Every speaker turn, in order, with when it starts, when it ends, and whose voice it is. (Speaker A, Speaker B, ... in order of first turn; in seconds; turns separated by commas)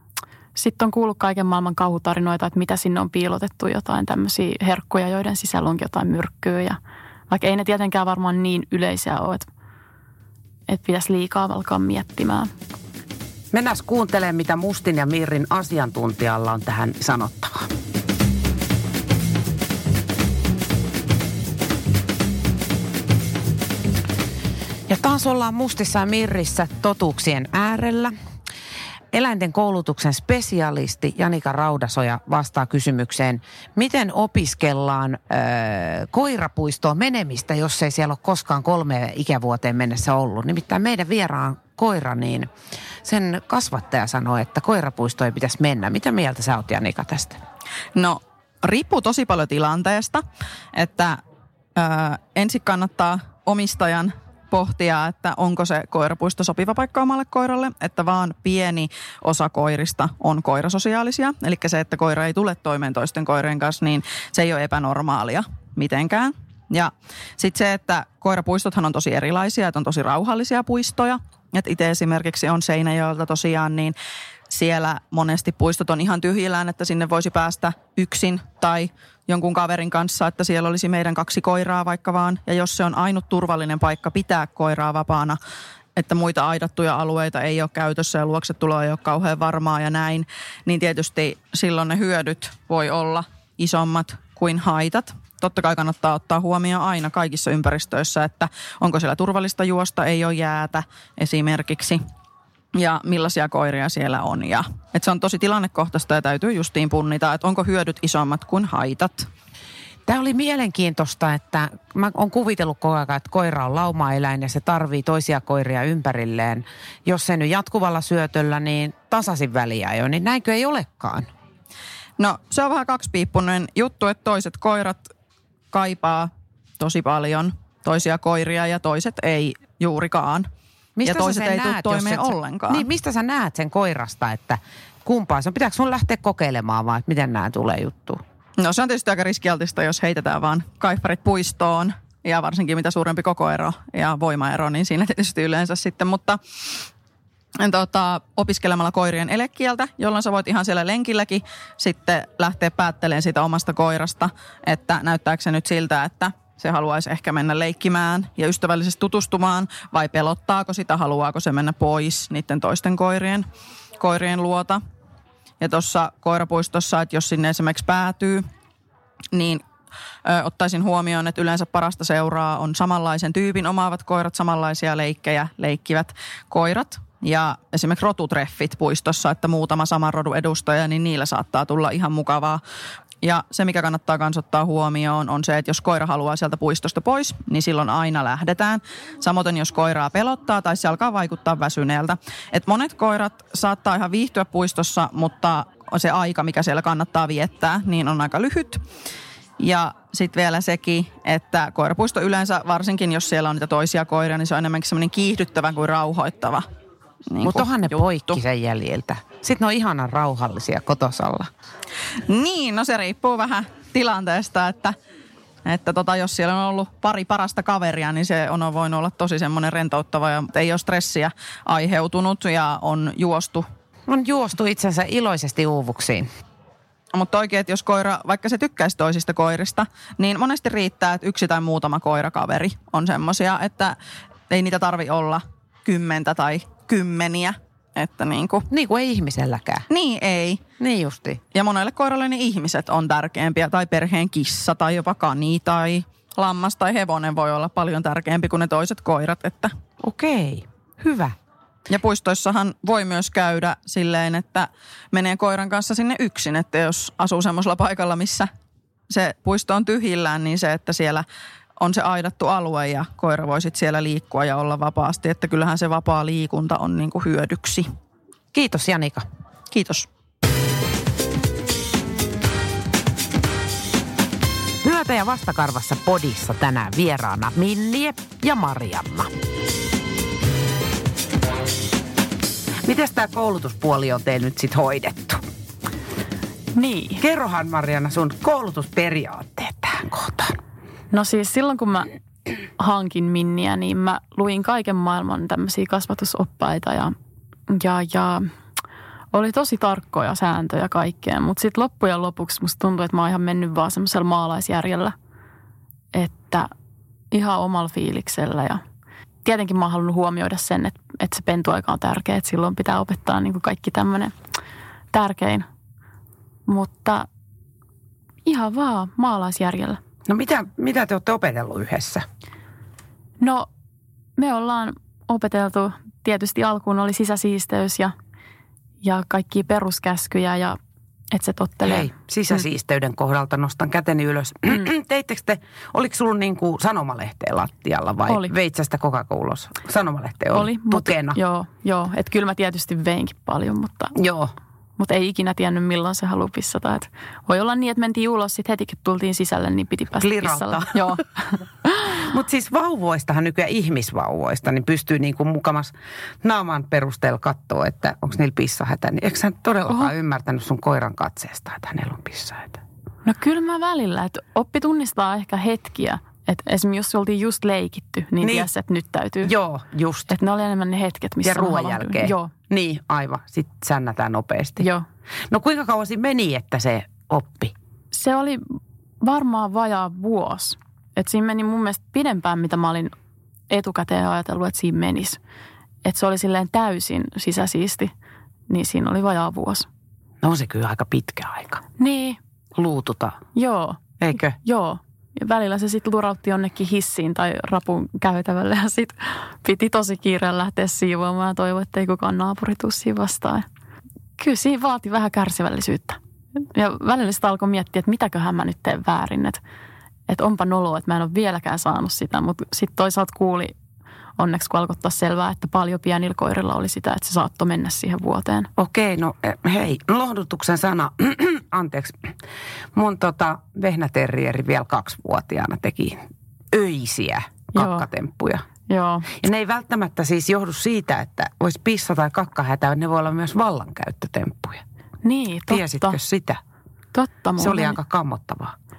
Speaker A: 0.5-6.8, Speaker A: 7.3-9.5, Speaker A: 10.7-12.5, Speaker B: 13.5-17.7, Speaker B: 24.9-28.1, Speaker B: 29.1-42.5, Speaker B: 43.0-47.4, Speaker C: 47.9-51.2, Speaker C: 51.8-73.9, Speaker C: 74.5-85.4, Speaker C: 86.0-102.0, Speaker C: 102.7-109.3, Speaker B: 110.1-121.3, Speaker C: 122.2-125.1, Speaker C: 125.7-130.5, Speaker B: 131.0-138.2, Speaker C: 131.0-132.8, Speaker C: 138.6-146.8, Speaker C: 147.6-163.4, Speaker C: 164.0-164.8, Speaker C: 165.6-168.4, Speaker C: 169.3-169.6, Speaker C: 170.2-182.6, Speaker C: 183.2-198.8, Speaker C: 199.6-206.6, Speaker C: 207.3-207.7, Speaker B: 207.4-211.5, Speaker C: 212.3-214.9, Speaker C: 215.6-223.6, Speaker B: 224.1-226.3, Speaker C: 227.1-233.9, Speaker C: 234.5-238.7, Speaker B: 238.7-239.9, Speaker C: 239.9-240.6, Speaker B: 240.8-241.4, Speaker C: 241.5-249.7, Speaker B: 250.0-251.3, Speaker C: 251.9-258.5, Speaker C: 259.1-261.2, Speaker C: 261.8-267.9, Speaker B: 268.5-269.2, Speaker C: 269.7-270.1, Speaker B: 274.8-279.3, Speaker B: 282.8-285.4, Speaker A: 286.7-287.2, Speaker B: 287.2-290.6, Speaker A: 291.1-292.1, Speaker A: 292.8-297.1, Speaker A: 297.7-298.5, Speaker A: 299.3-305.1, Speaker A: 306.1-306.7, Speaker A: 307.3-308.8, Speaker A: 309.4-314.3, Speaker A: 315.1-315.6, Speaker A: 316.7-317.3, Speaker A: 318.4-320.0, Speaker B: 320.3-322.2, Speaker A: 323.4-323.7, Speaker A: 324.4-328.1, Speaker A: 329.0-330.8, Speaker A: 331.3-332.6, Speaker B: 331.8-341.4, Speaker A: 338.3-338.5, Speaker A: 340.5-344.1, Speaker B: 344.1-344.5, Speaker A: 345.0-351.6, Speaker B: 350.2-351.2, Speaker B: 352.1-362.8, Speaker A: 363.2-369.5, Speaker B: 368.4-368.7, Speaker B: 369.4-370.3, Speaker A: 370.3-372.5, Speaker B: 371.4-374.9, Speaker A: 374.8-375.0, Speaker B: 375.5-377.7, Speaker A: 378.1-383.1, Speaker A: 383.7-385.4, Speaker A: 386.0-388.1, Speaker A: 388.7-389.9, Speaker B: 390.4-391.8, Speaker A: 392.0-392.4, Speaker B: 392.7-393.4, Speaker A: 393.5-403.6, Speaker B: 394.2-394.6, Speaker A: 404.4-406.2, Speaker A: 406.7-409.6, Speaker A: 410.3-413.7, Speaker A: 414.4-418.7, Speaker B: 418.8-422.3, Speaker B: 422.9-428.6, Speaker A: 427.7-428.0, Speaker A: 428.9-429.3, Speaker B: 429.3-434.8, Speaker A: 435.2-436.2, Speaker B: 435.7-436.6, Speaker A: 437.1-438.0, Speaker B: 437.6-438.7